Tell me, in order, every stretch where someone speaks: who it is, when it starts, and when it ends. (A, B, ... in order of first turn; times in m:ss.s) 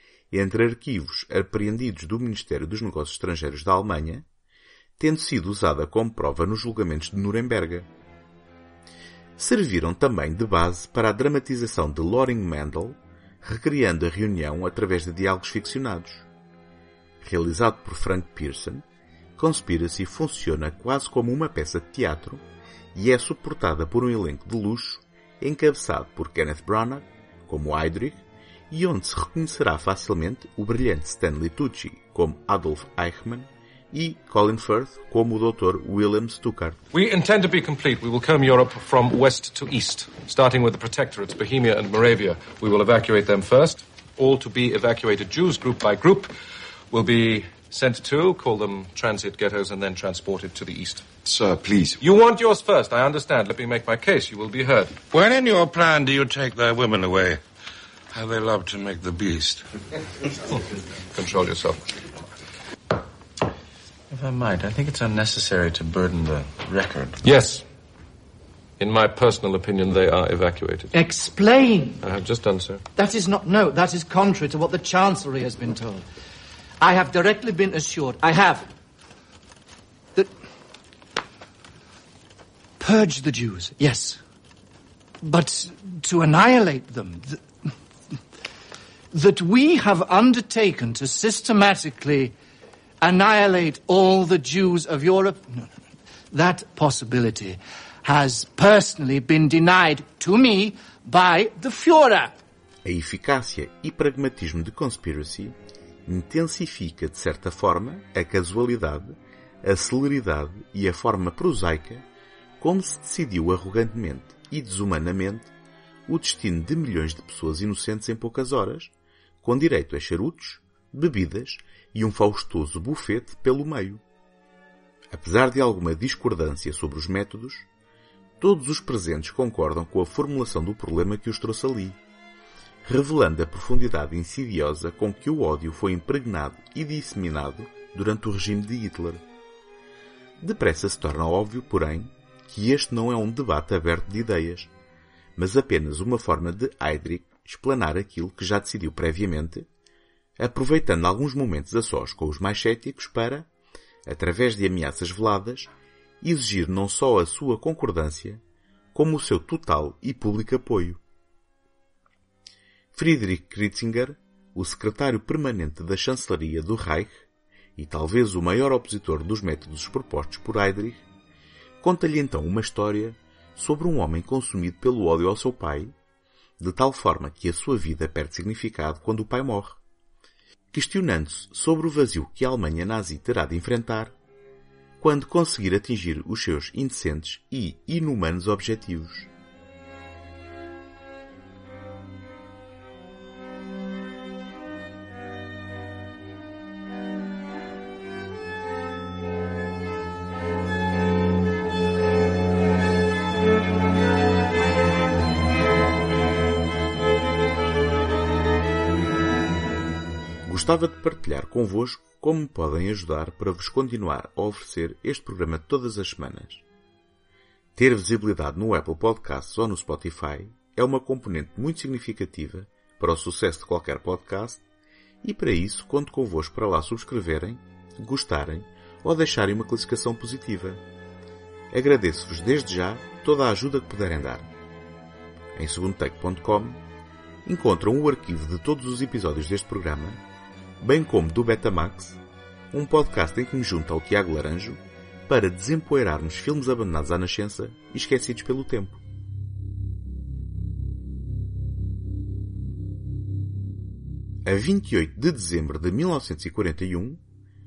0:00.3-0:04.2 A
0:05.0-0:07.9 A
0:09.4-0:16.3 A
0:17.2-0:18.8 A
0:19.4-0:22.4 A
0:23.0-0:36.8 A
0:36.9-0:46.3 B
0:46.9-0:51.2 B
0:51.3-0:51.9 C
0:52.0-0:55.0 B
0:55.1-0:57.4 D
0:58.1-0:59.7 D
1:01.1-1:01.9 B
1:04.1-1:07.2 C
1:07.2-1:07.6 B
1:08.8-1:11.0 B
1:10.9-1:12.0 E
1:12.0-1:12.8 B
1:13.0-1:16.1 E
1:16.8-1:18.7 E
1:22.8-1:24.2 E
1:25.2-1:27.7 E
1:29.1-1:32.3 E
1:33.0-1:35.7 E
1:36.3-1:42.4 E
1:42.8-1:52.0 A
1:52.6-1:55.5 A
1:56.1-1:58.9 A
1:59.4-2:04.0 A
2:05.1-2:07.7 A
2:08.4-2:12.0 A
2:12.8-2:19.2 A
2:20.4-2:24.7 A
2:25.4-2:29.7 A
2:30.4-2:33.5 A
2:34.1-2:38.4 A
2:38.9-2:41.0 A
2:42.9-2:47.2 A
2:47.8-2:51.0 A
2:51.8-2:56.0 A
2:56.6-2:59.8 A
3:00.7-3:04.1 A
3:05.0-3:09.3 A
3:30.5-3:36.6 A
3:37.8-3:44.6 A
3:45.2-3:50.8 A
3:51.7-3:54.5 A
3:55.6-3:56.8 A
3:57.4-4:00.2 A
4:00.8-4:02.2 A
4:02.7-4:09.0 A
4:14.4-4:17.2 A